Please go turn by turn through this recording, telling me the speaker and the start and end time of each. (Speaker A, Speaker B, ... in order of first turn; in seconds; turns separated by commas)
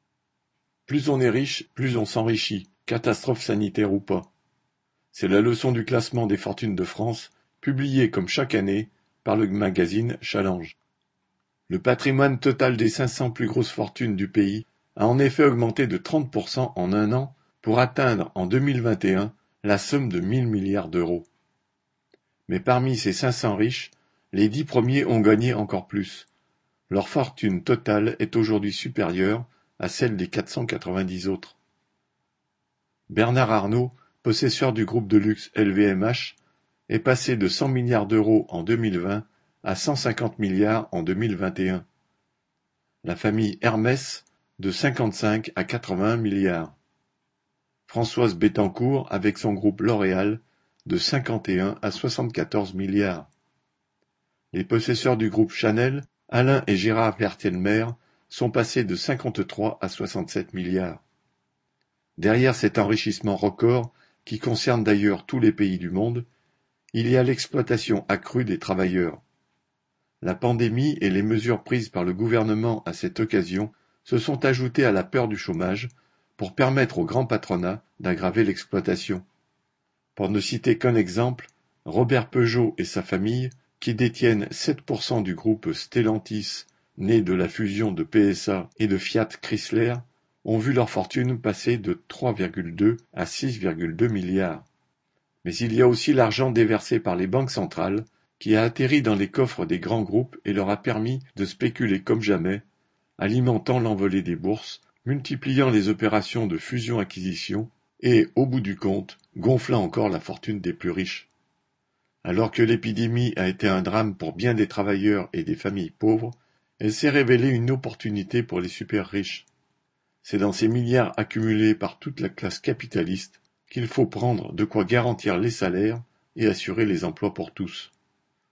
Speaker A: 0.9-4.3, Speaker A: 5.1-10.8, Speaker A: 11.7-21.3, Speaker A: 22.5-26.3, Speaker A: 26.9-31.6, Speaker A: 33.1-36.4, Speaker A: 36.9-41.9, Speaker A: 43.0-46.8, Speaker A: 47.9-53.3, Speaker A: 54.5-61.0, Speaker A: 62.2-66.3, Speaker A: 66.9-69.2, Speaker A: 70.2-79.2, Speaker A: 80.1-94.7, Speaker A: 95.4-102.6, Speaker A: 103.2-111.3, Speaker A: 112.2-119.5, Speaker A: 120.2-127.9